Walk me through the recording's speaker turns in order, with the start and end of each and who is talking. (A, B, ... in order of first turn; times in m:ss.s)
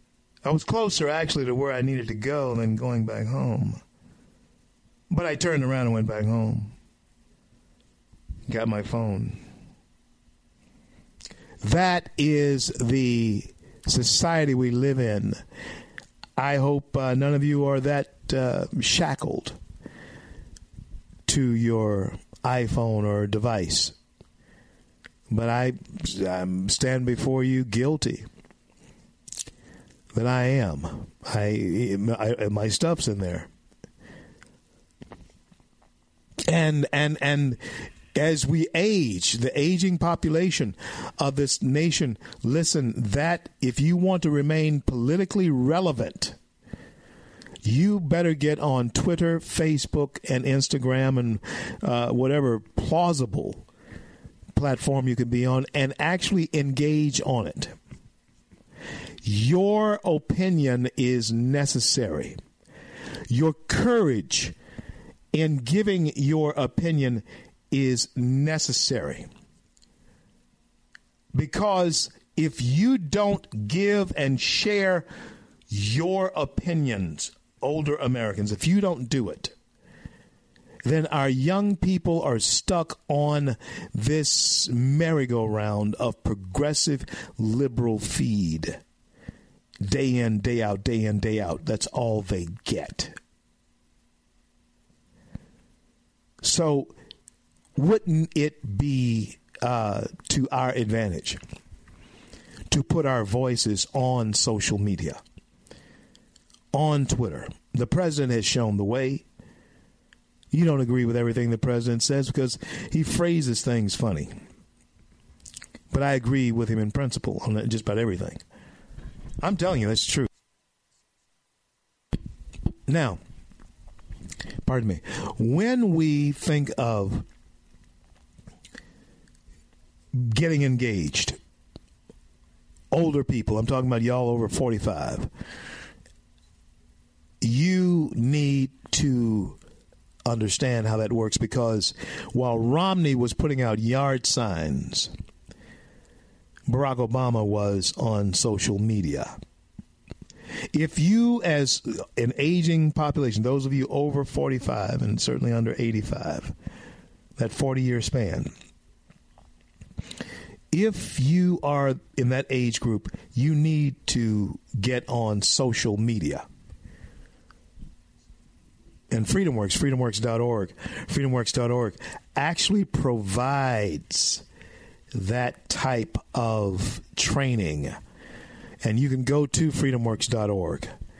0:00.4-0:03.8 A
0:05.1-0:06.7 A
0:08.5-0:09.4 A
0:11.6-0:15.4 A
0:16.4-0:19.6 A
0:21.2-0:23.9 A
0:25.3-0:28.3 A
0:30.1-0:33.5 A
0:36.4-0:46.4 A
0:47.6-0:53.6 A
0:54.5-0:57.7 A
0:59.2-1:02.4 A
1:03.3-1:04.5 A
1:05.3-1:09.3 A
1:11.3-1:15.1 A
1:15.7-1:19.5 A
1:20.8-1:28.8 A
1:29.8-1:33.2 A
1:36.4-1:36.9 A
1:37.7-1:41.4 A
1:42.7-1:45.2 A
1:46.7-1:49.2 A
1:50.5-1:54.4 A
1:55.9-1:58.4 A
1:59.4-2:00.3 A
2:02.9-2:03.2 A
2:04.6-2:07.2 A
2:10.1-2:11.4 A
2:12.9-2:15.3 A
2:17.4-2:19.6 A
2:20.2-2:25.1 A
2:26.7-2:29.3 A
2:30.7-2:36.5 A
2:37.4-2:38.5 A
2:40.7-2:46.4 A
2:49.1-2:54.4 A
2:55.1-2:58.0 A
2:58.8-3:00.9 A